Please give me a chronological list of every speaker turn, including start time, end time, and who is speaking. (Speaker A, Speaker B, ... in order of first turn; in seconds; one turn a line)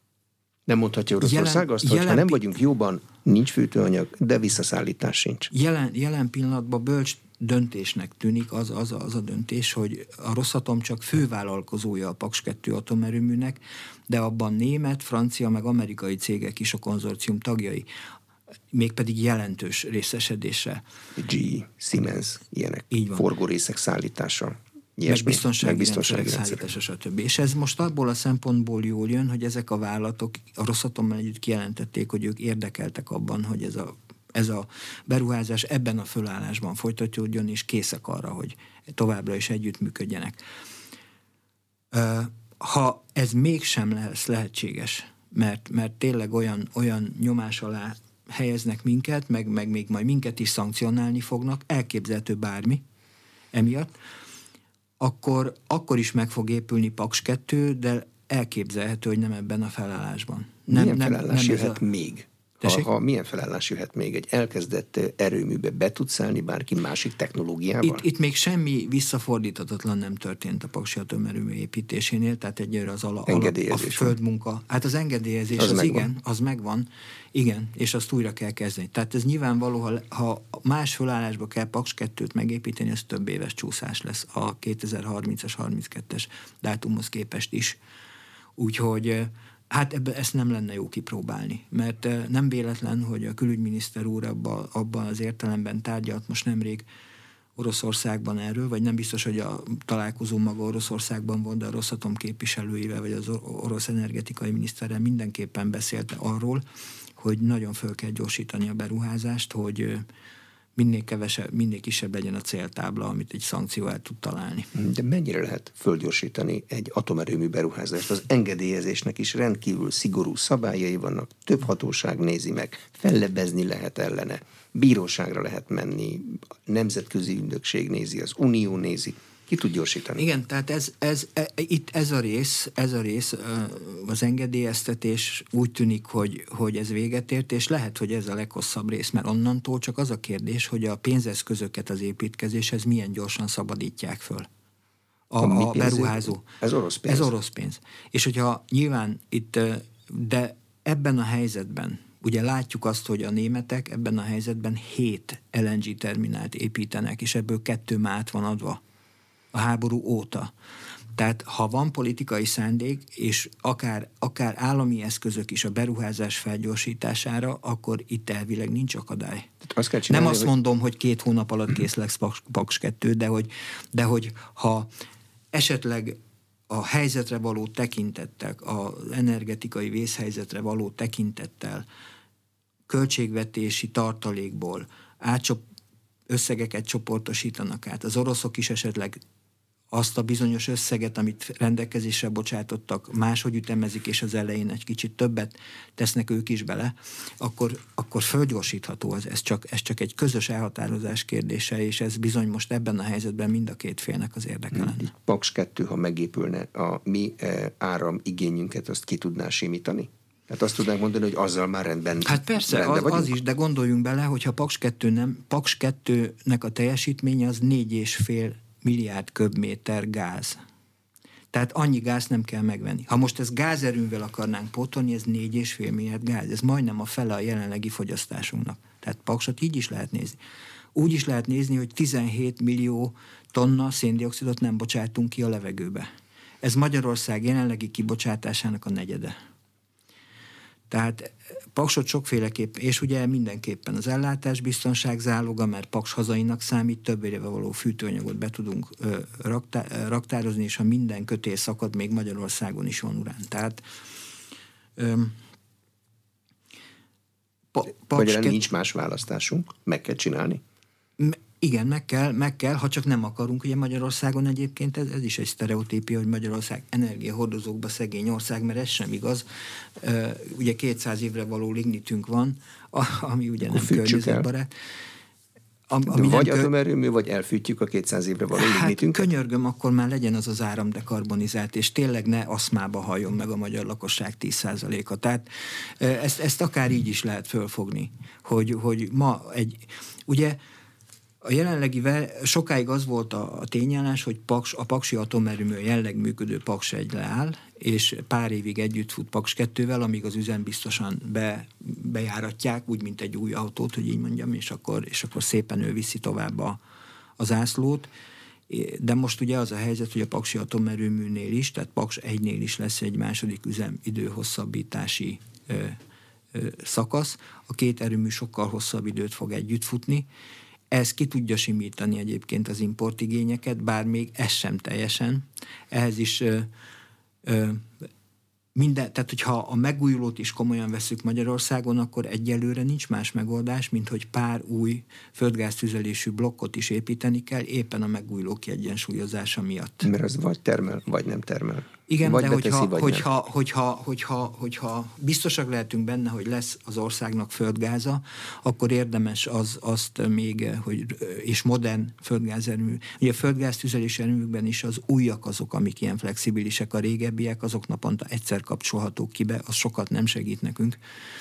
Speaker A: 0.7-5.5
Speaker B: 1.2-2.4
Speaker B: 5.5-17.9
Speaker B: 18.7-20.8
Speaker A: 21.1-26.6
Speaker B: 22.9-23.2
Speaker B: 25.1-40.4
Speaker B: 41.9-52.8
Speaker B: 53.5-53.9
Speaker B: 55.0-61.8
Speaker A: 60.7-68.0
Speaker B: 62.6-62.9
Speaker B: 67.8-87.8
Speaker A: 73.3-74.2
Speaker A: 75.6-76.0
Speaker B: 88.6-96.8
Speaker B: 97.5-106.6
Speaker B: 107.2-110.0
Speaker B: 110.8-114.7
Speaker A: 114.7-130.2
Speaker B: 130.2-144.5
Speaker B: 145.3-146.4
Speaker A: 145.4-147.3
Speaker B: 147.0-158.8
Speaker B: 159.5-160.5
Speaker B: 161.1-169.5
Speaker A: 169.6-170.5
Speaker B: 170.1-174.9
Speaker B: 175.5-176.2
Speaker B: 176.7-181.8
Speaker B: 182.9-185.6
Speaker B: 186.3-189.2
Speaker B: 189.9-205.1
Speaker A: 204.7-213.3
Speaker B: 212.2-220.6
Speaker B: 221.5-230.4
Speaker B: 230.9-236.1
Speaker B: 236.6-239.3
Speaker B: 240.9-253.8
Speaker B: 255.0-255.4
Speaker B: 257.7-258.6
Speaker A: 258.1-260.6
Speaker B: 261.2-269.4
Speaker B: 270.0-274.7
Speaker A: 273.7-274.5
Speaker B: 275.9-276.7
Speaker A: 276.1-279.3
Speaker B: 278.5-290.6
Speaker B: 291.4-306.8
Speaker B: 307.4-308.1
Speaker B: 308.7-316.0
Speaker B: 316.5-320.3
Speaker B: 320.9-326.7
Speaker B: 327.4-328.1
Speaker B: 328.7-340.1
Speaker A: 340.0-343.2
Speaker B: 342.1-361.0